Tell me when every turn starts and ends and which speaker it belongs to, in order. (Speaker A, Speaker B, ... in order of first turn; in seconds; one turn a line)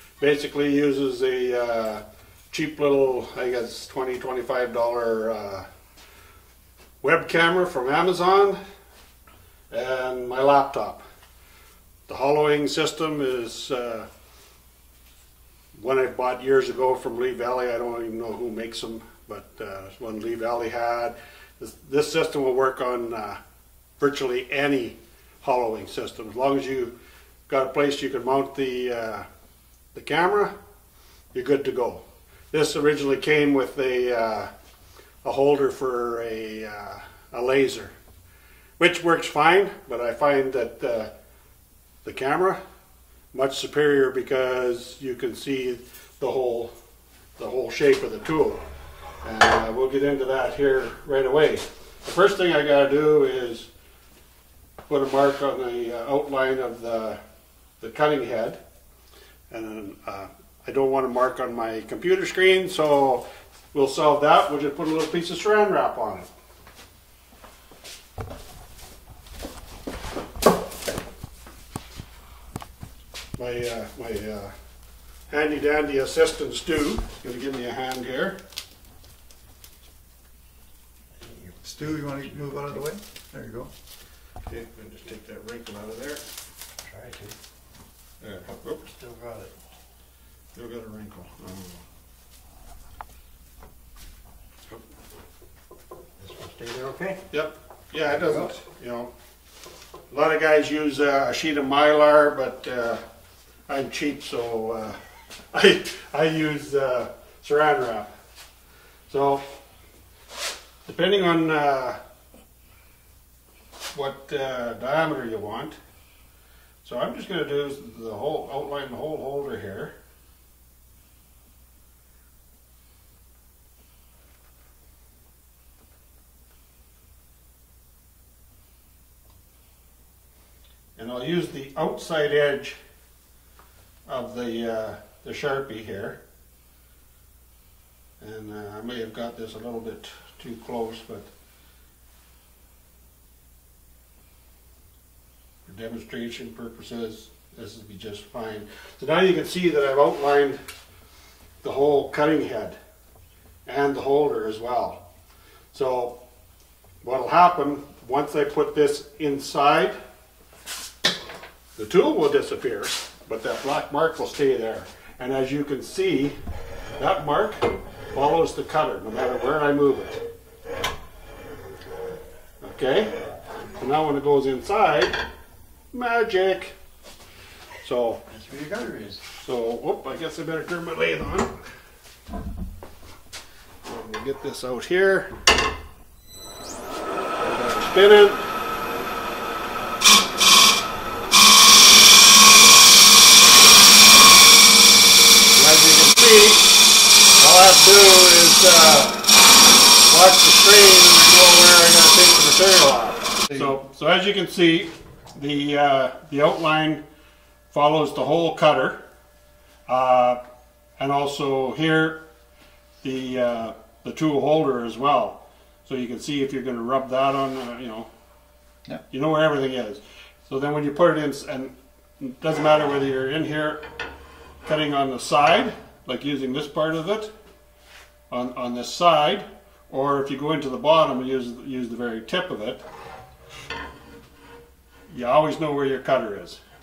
Speaker A: 0.2-5.7
Speaker A: 7.0-8.6
Speaker A: 9.7-11.0
Speaker A: 12.1-14.1
Speaker A: 15.7-23.4
Speaker A: 24.0-26.9
Speaker A: 27.5-29.2
Speaker A: 29.9-30.5
Speaker A: 31.3-34.5
Speaker A: 35.2-37.9
Speaker A: 38.8-41.1
Speaker A: 42.0-42.6
Speaker A: 43.3-46.7
Speaker A: 47.4-48.6
Speaker A: 49.2-53.7
Speaker A: 54.9-57.2
Speaker A: 57.8-58.6
Speaker A: 59.5-66.3
Speaker A: 73.4-74.5
Speaker A: 75.3-78.4
Speaker B: 81.2-82.3
Speaker C: 81.6-83.7
Speaker A: 84.5-86.2
Speaker B: 86.8-87.3
Speaker A: 88.2-88.9
Speaker B: 88.7-89.5
Speaker A: 90.5-91.8
Speaker B: 96.2-97.2
Speaker A: 97.3-99.1
Speaker A: 100.1-103.0
Speaker A: 103.7-105.0
Speaker A: 105.5-108.1
Speaker A: 109.1-109.4
Speaker A: 110.8-112.0
Speaker A: 113.9-115.8
Speaker A: 116.8-119.9
Speaker A: 131.0-132.8
Speaker A: 134.1-136.2
Speaker A: 138.2-141.3
Speaker A: 145.7-150.6
Speaker A: 151.6-152.8
Speaker A: 153.7-155.0
Speaker A: 155.7-156.2
Speaker A: 157.0-159.9
Speaker A: 161.8-166.3
Speaker A: 167.0-170.2
Speaker A: 172.6-173.1
Speaker A: 173.8-175.2
Speaker A: 175.9-176.8
Speaker A: 177.8-178.2
Speaker B: 178.3-179.2
Speaker A: 179.3-181.5
Speaker A: 183.8-185.3
Speaker A: 187.4-188.5
Speaker A: 195.5-196.7
Speaker A: 197.4-199.2
Speaker A: 200.1-207.0
Speaker A: 207.7-209.0
Speaker A: 209.9-210.4
Speaker A: 211.0-212.2
Speaker A: 213.0-218.1
Speaker A: 219.1-223.8
Speaker A: 224.6-227.3
Speaker A: 228.3-232.8
Speaker A: 235.1-236.6